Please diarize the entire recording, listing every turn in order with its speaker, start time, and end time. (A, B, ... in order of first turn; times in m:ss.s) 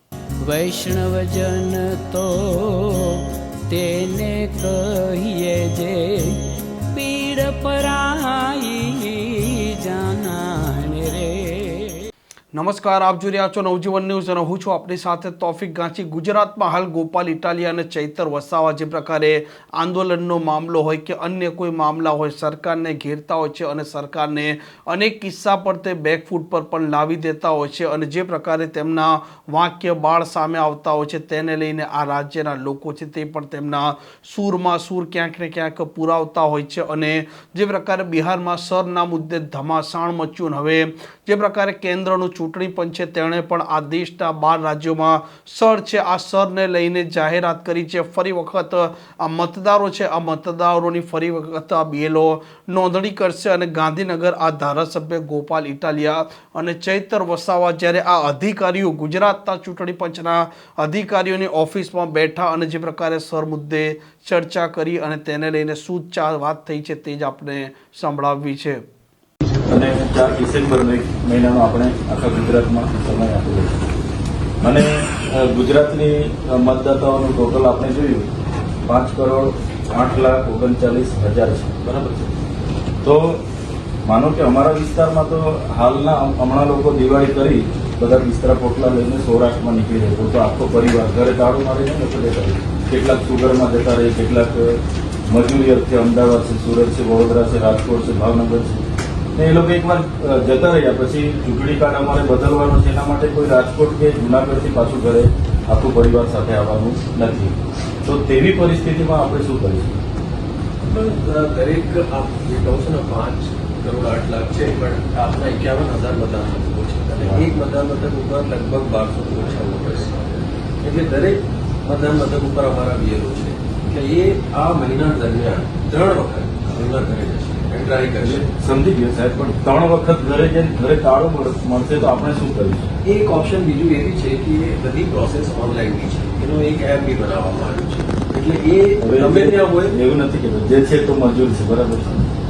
0:00.4-0:12.0 A
0:12.5-1:08.8 B
1:09.7-1:13.8 C
1:14.6-1:18.3 C
1:18.9-1:22.3 C
1:23.0-1:23.4 C
1:24.0-1:38.8 C
1:39.3-1:50.0 C
1:50.8-2:08.5 D
2:08.2-2:12.9 C
2:13.0-2:19.9 D
2:19.0-2:22.2 C